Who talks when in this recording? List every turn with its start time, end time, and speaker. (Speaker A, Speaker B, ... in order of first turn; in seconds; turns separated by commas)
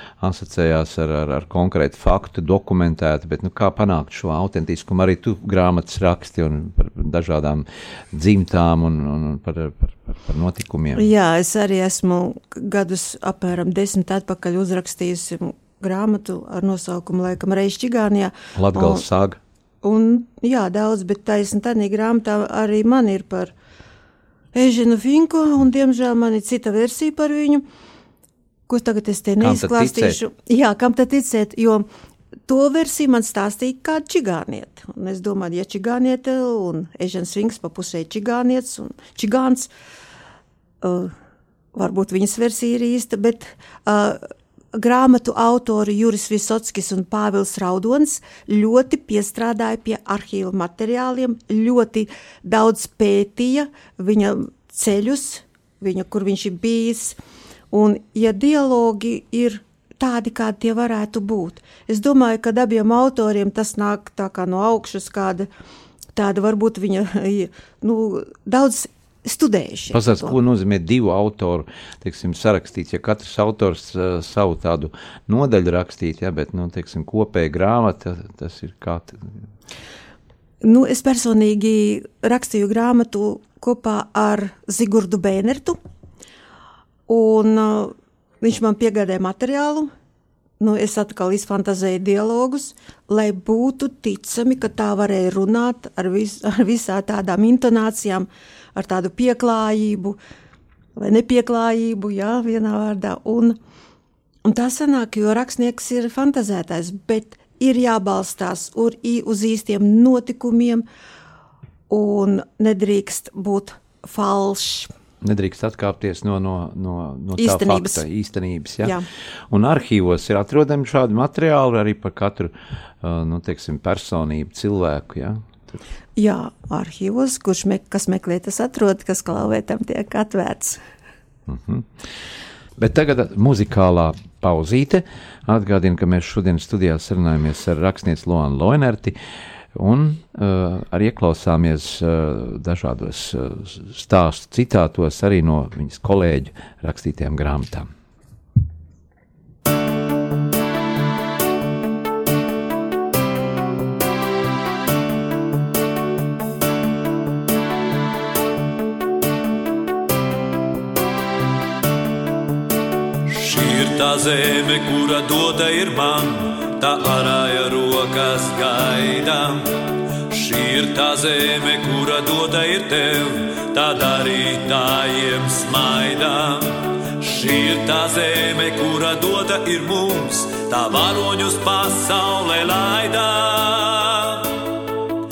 Speaker A: 0.2-11.1, Speaker B: 11.0-19.0, Speaker A: 18.6-19.4, Speaker B: 19.8-23.5, Speaker B: 24.5-27.6, Speaker B: 28.7-31.9, Speaker A: 29.4-30.2, Speaker B: 32.5-39.7, Speaker B: 40.8-41.1, Speaker B: 41.8-57.2, Speaker B: 57.7-65.5, Speaker B: 66.1-70.4, Speaker A: 69.9-79.2, Speaker B: 80.6-85.8, Speaker B: 87.1-89.9, Speaker B: 90.6-100.2, Speaker B: 101.0-103.6, Speaker B: 104.5-110.9, Speaker B: 111.9-114.9, Speaker A: 115.2-119.0, Speaker B: 117.4-118.0, Speaker A: 119.5-125.5, Speaker B: 126.2-130.8, Speaker A: 131.5-131.9, Speaker A: 132.8-139.2, Speaker A: 139.8-147.9, Speaker C: 163.2-184.8